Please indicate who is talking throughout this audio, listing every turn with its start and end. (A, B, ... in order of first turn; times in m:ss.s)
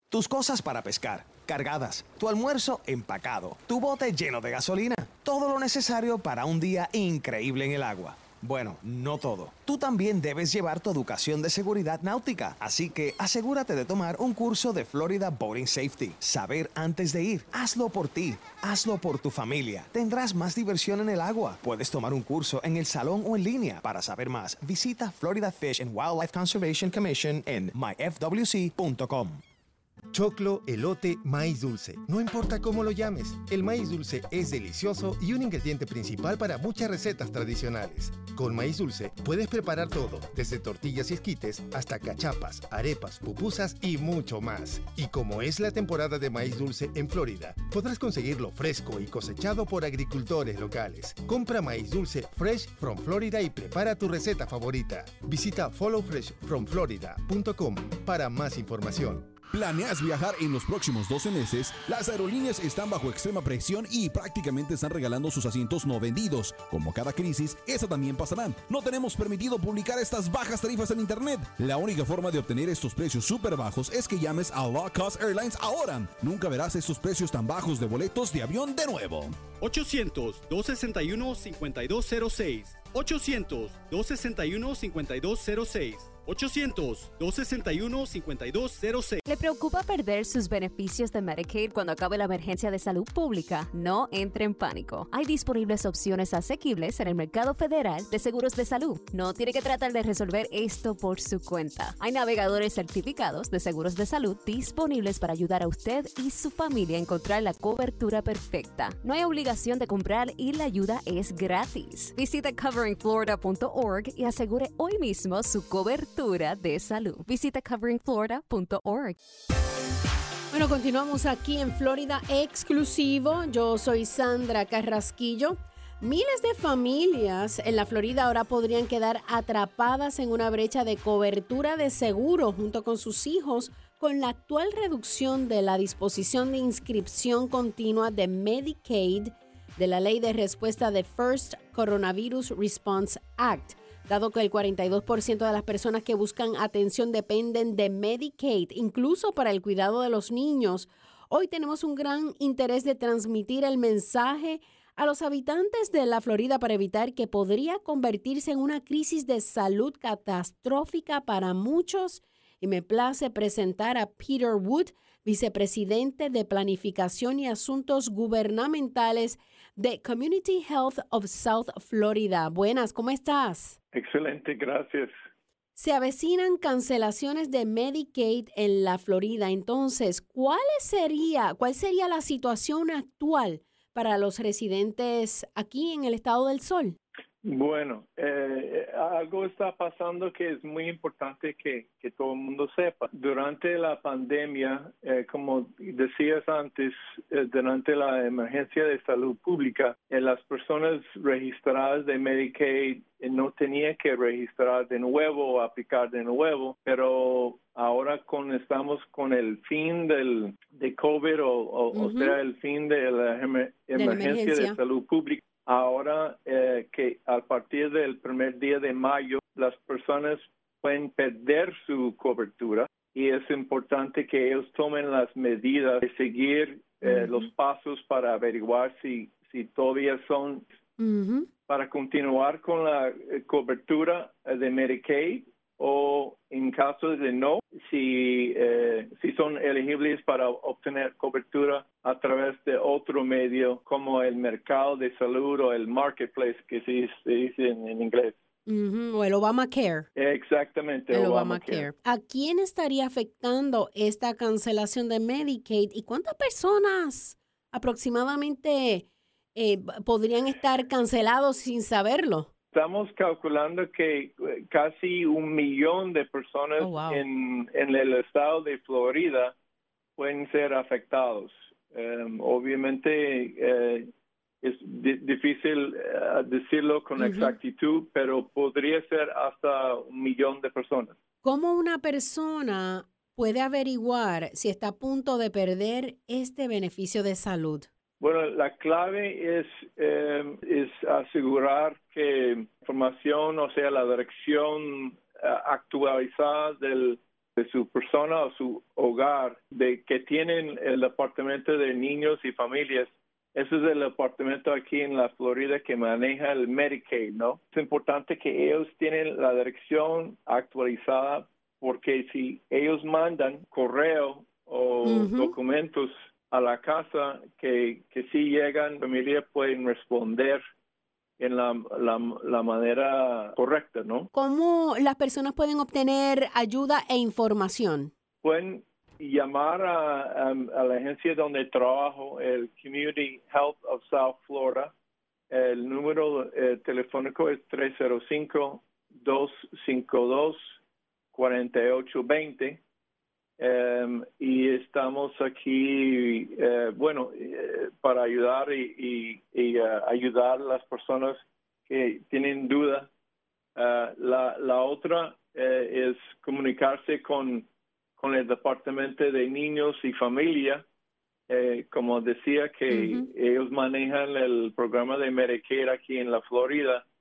0:00.1-0:29.4 A
0:30.1-0:59.3 B
0:59.5-1:19.4 C
1:19.6-1:29.3 D
1:29.3-1:59.2 E
2:00.5-2:53.8 F
2:53.9-2:55.1 G
2:55.8-3:07.0 F
3:07.4-3:50.6 G
3:31.9-3:32.4 F
3:34.0-3:34.8 F
3:47.0-3:47.5 F
3:51.0-3:51.5 F
3:51.7-4:08.4 G
4:08.7-4:10.1 F
4:10.2-4:11.9 G
4:11.1-4:22.5 F
4:22.7-4:29.6 G
4:26.8-4:27.2 F
4:30.2-4:34.1 G
4:34.6-4:41.2 G
4:37.2-4:37.6 F
4:41.4-4:47.9 F
4:48.2-5:20.6 G
5:15.0-5:15.6 F
5:21.4-5:24.3 G
5:24.3-5:28.1 F
5:28.4-5:34.9 G
5:35.5-5:40.8 G
5:41.3-5:42.8 G
5:43.6-5:53.1 G
5:53.8-6:00.8 G
6:01.5-6:07.0 G
6:02.9-6:03.3 F